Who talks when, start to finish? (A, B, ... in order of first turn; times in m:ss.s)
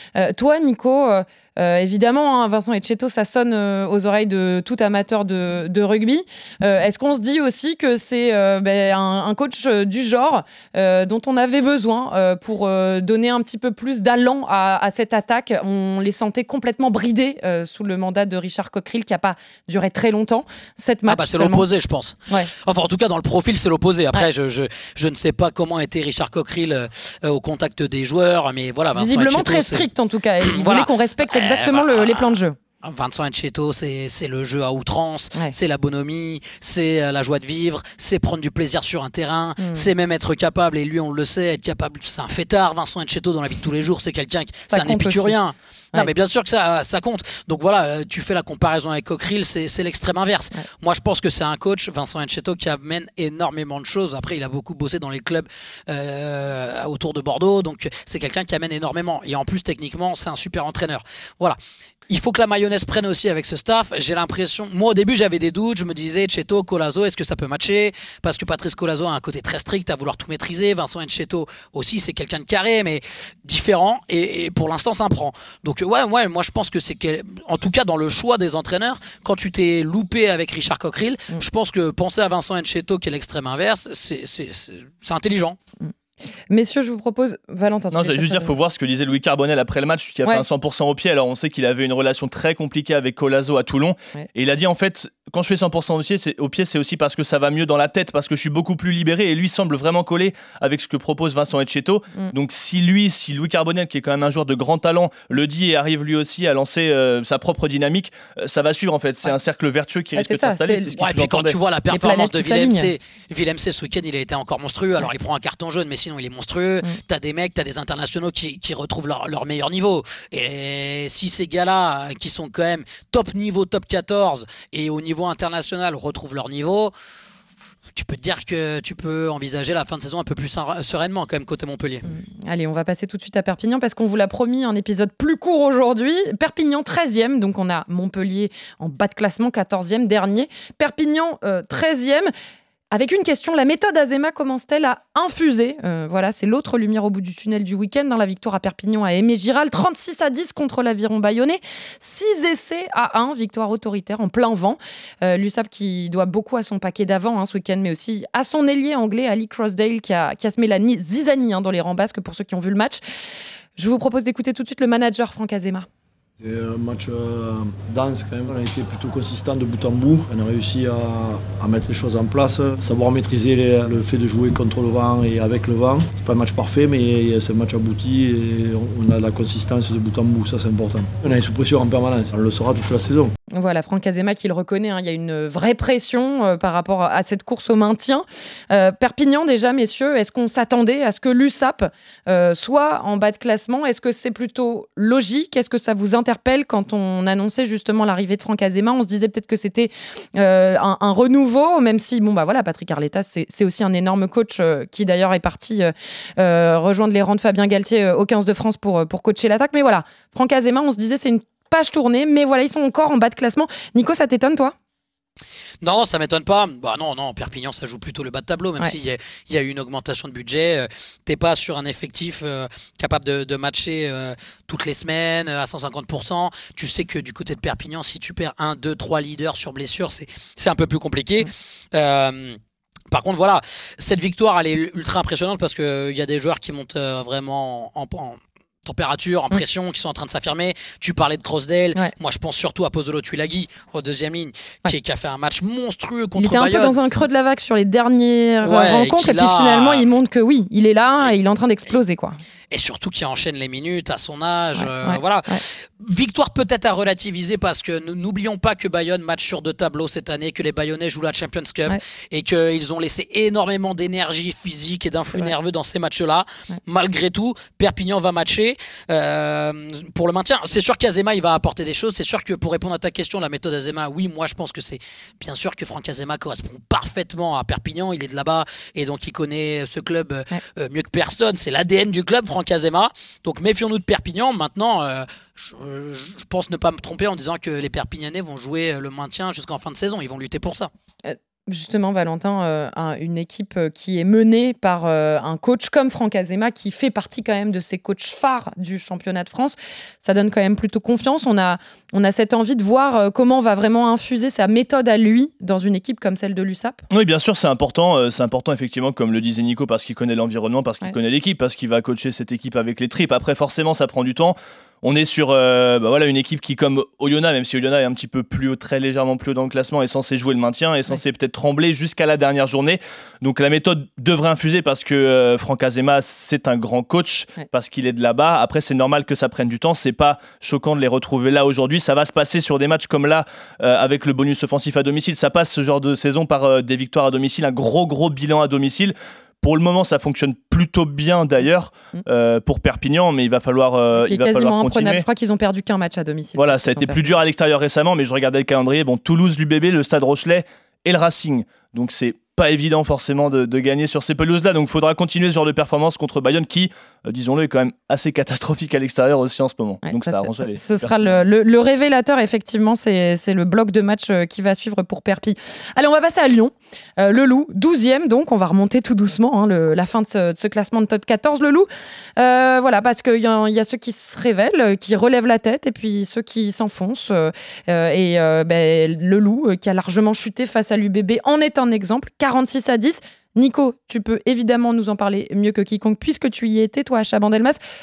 0:00.2-0:21.6 A
0:21.1-0:29.9 B
0:29.0-0:32.6 A
0:30.4-1:01.6 B
0:39.6-0:39.9 A
0:44.7-0:45.4 A
1:02.1-1:25.6 B
1:26.5-1:28.5 A
1:27.9-1:51.6 C
1:50.2-1:50.9 A
1:51.0-2:06.9 B
1:51.9-1:52.9 A
2:07.9-2:12.0 B
2:12.0-2:22.3 A
2:22.9-2:43.0 A
2:43.8-2:45.9 A
2:46.4-3:03.3 D
3:03.5-3:34.7 A
3:35.8-3:52.6 B
3:53.1-4:07.0 B
4:06.4-4:12.4 A
4:08.6-4:10.1 B
4:12.7-4:50.9 B
4:14.8-4:15.6 A
4:51.2-5:07.0 A
5:07.1-5:45.2 C
5:44.1-5:47.2 A
5:46.6-6:01.4 C
6:00.0-6:27.8 A